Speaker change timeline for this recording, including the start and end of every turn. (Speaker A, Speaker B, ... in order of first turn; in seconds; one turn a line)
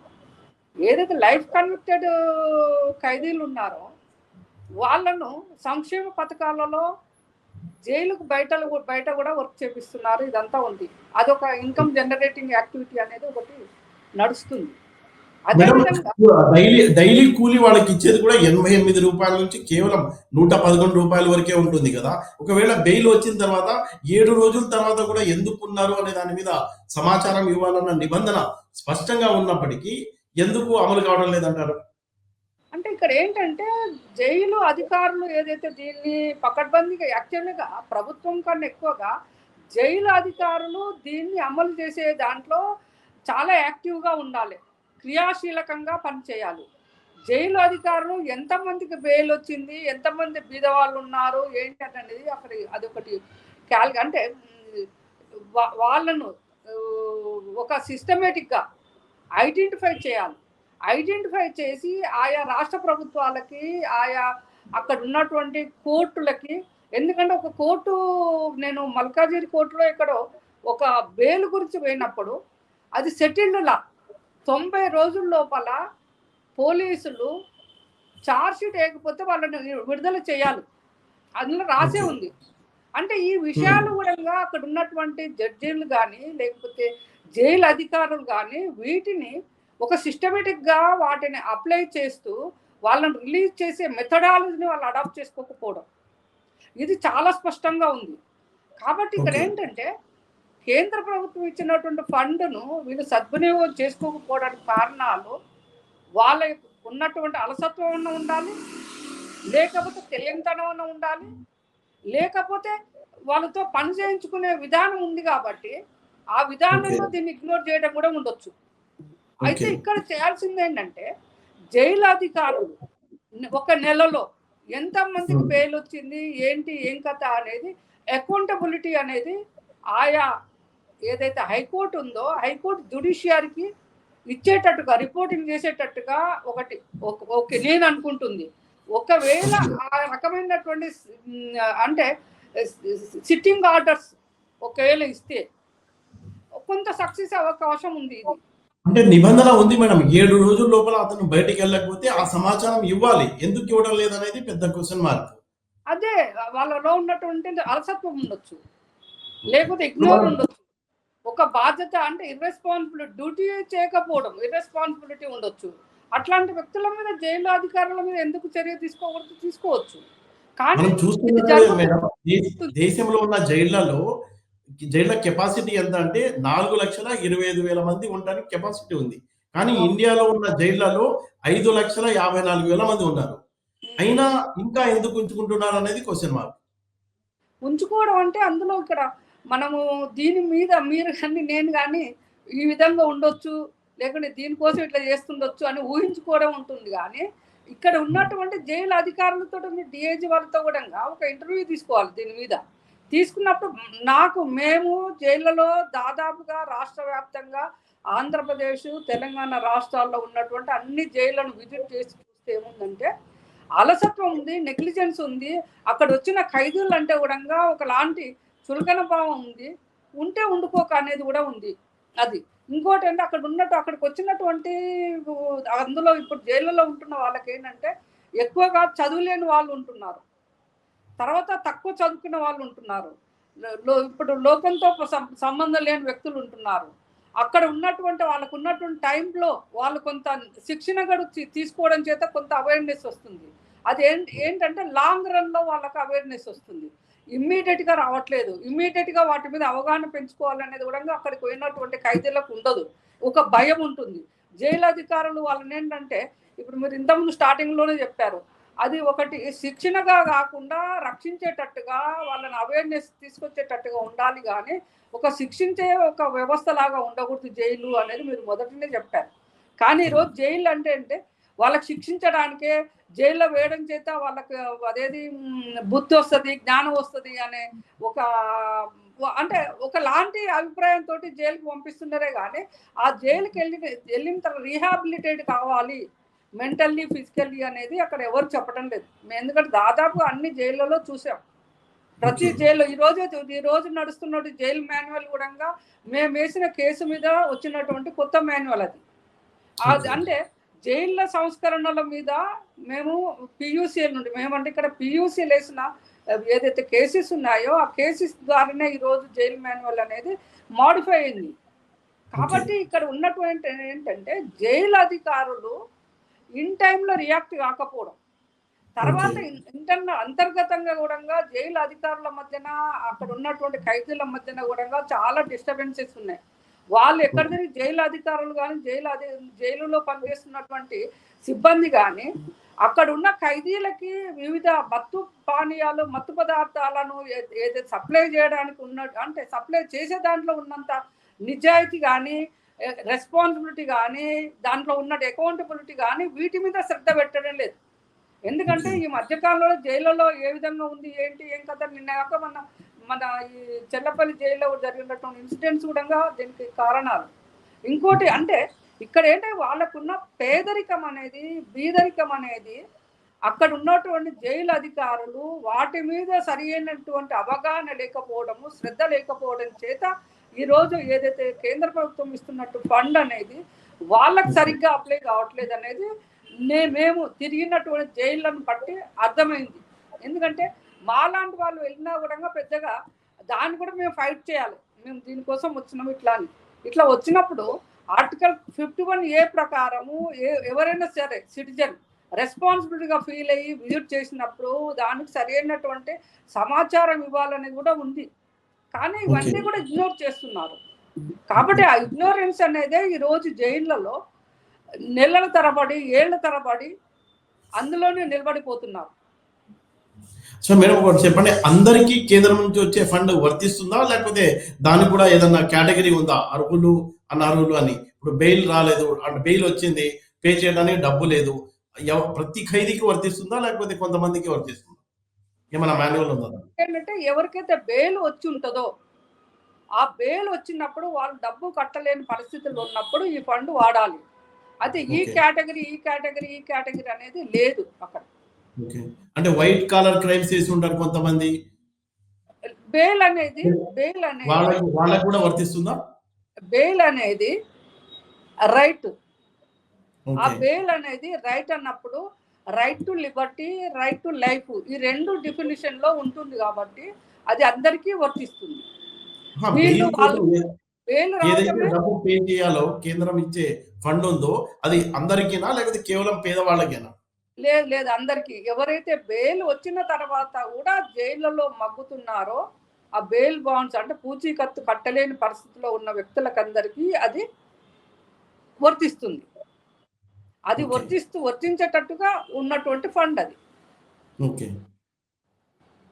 Speaker A: 0.8-2.1
Speaker A: 3.0-3.8
Speaker A: 4.8-6.8
Speaker A: 7.9-13.6
Speaker A: 14.2-14.7
Speaker A: 15.5-16.1
Speaker B: 15.5-31.8
Speaker A: 32.8-33.7
Speaker A: 34.2-39.1
Speaker A: 39.7-42.6
Speaker A: 43.3-46.6
Speaker A: 47.3-53.1
Speaker A: 53.7-54.2
Speaker A: 55.5-58.6
Speaker A: 59.4-60.4
Speaker A: 60.9-64.2
Speaker A: 64.8-68.0
Speaker A: 68.6-70.2
Speaker A: 70.7-72.3
Speaker A: 73.0-73.8
Speaker A: 74.5-75.8
Speaker A: 76.6-77.3
Speaker A: 78.3-80.6
Speaker A: 81.4-82.3
Speaker B: 81.8-82.1
Speaker A: 83.0-86.8
Speaker A: 87.4-89.3
Speaker A: 89.8-92.3
Speaker A: 92.9-95.8
Speaker A: 96.8-98.1
Speaker A: 98.8-99.9
Speaker B: 99.2-99.5
Speaker A: 100.7-105.3
Speaker A: 106.2-108.5
Speaker A: 109.5-111.3
Speaker A: 112.1-112.7
Speaker A: 113.3-115.7
Speaker A: 116.3-118.5
Speaker B: 116.7-117.0
Speaker B: 119.5-119.8
Speaker A: 119.5-121.0
Speaker A: 121.7-122.7
Speaker A: 123.5-124.2
Speaker A: 124.8-129.3
Speaker A: 129.9-130.3
Speaker A: 131.1-133.6
Speaker A: 134.3-138.4
Speaker A: 138.9-142.1
Speaker B: 139.4-139.7
Speaker A: 142.6-144.1
Speaker A: 144.7-145.4
Speaker A: 146.6-148.3
Speaker B: 148.9-155.4
Speaker A: 155.9-158.6
Speaker A: 159.5-160.6
Speaker B: 159.5-160.3
Speaker A: 161.3-170.0
Speaker A: 170.6-171.9
Speaker B: 170.8-174.0
Speaker B: 174.9-183.4
Speaker A: 183.9-184.2
Speaker B: 184.0-186.5
Speaker A: 187.7-192.0
Speaker A: 192.6-197.2
Speaker A: 197.7-202.6
Speaker A: 203.1-207.6
Speaker A: 208.2-213.1
Speaker A: 213.8-219.7
Speaker A: 220.2-221.7
Speaker A: 222.2-224.7
Speaker A: 225.2-230.2
Speaker A: 231.2-233.1
Speaker A: 233.9-236.9
Speaker A: 237.4-269.3
Speaker A: 269.8-275.2
Speaker A: 275.9-286.0
Speaker A: 286.6-291.4
Speaker B: 292.2-292.6
Speaker A: 292.2-299.0
Speaker A: 299.8-302.4
Speaker B: 299.9-300.2
Speaker A: 302.9-305.8
Speaker A: 306.5-311.5
Speaker A: 312.4-315.7
Speaker B: 312.4-312.7
Speaker A: 316.6-318.2
Speaker A: 319.0-326.4
Speaker B: 319.0-319.4
Speaker A: 326.9-332.3
Speaker A: 332.9-340.9
Speaker A: 341.5-342.4
Speaker A: 343.1-347.8
Speaker A: 348.5-357.3
Speaker B: 348.7-349.0
Speaker A: 357.9-362.8
Speaker B: 358.1-358.4
Speaker A: 363.5-370.1
Speaker A: 370.6-373.6
Speaker A: 374.1-376.0
Speaker B: 374.5-374.7
Speaker A: 376.7-382.9
Speaker A: 383.5-398.2
Speaker A: 398.9-400.8
Speaker B: 399.3-399.6
Speaker A: 401.5-404.1
Speaker B: 401.6-401.8
Speaker A: 405.2-406.9
Speaker A: 407.8-409.1
Speaker B: 410.6-421.5
Speaker B: 422.1-425.0
Speaker B: 425.7-426.6
Speaker A: 426.8-428.9
Speaker A: 430.0-434.2
Speaker A: 434.8-438.2
Speaker B: 435.1-435.4
Speaker B: 438.8-441.5
Speaker A: 442.9-444.7
Speaker B: 444.5-446.0
Speaker A: 446.7-447.5
Speaker A: 448.7-449.1
Speaker B: 450.3-450.6
Speaker A: 450.4-452.2
Speaker A: 452.8-458.8
Speaker B: 459.6-460.6
Speaker A: 459.7-460.4
Speaker A: 461.1-461.9
Speaker B: 461.4-467.1
Speaker A: 467.6-472.6
Speaker A: 473.2-477.4
Speaker A: 478.9-479.4
Speaker A: 480.7-483.6
Speaker B: 480.8-481.1
Speaker B: 484.4-484.7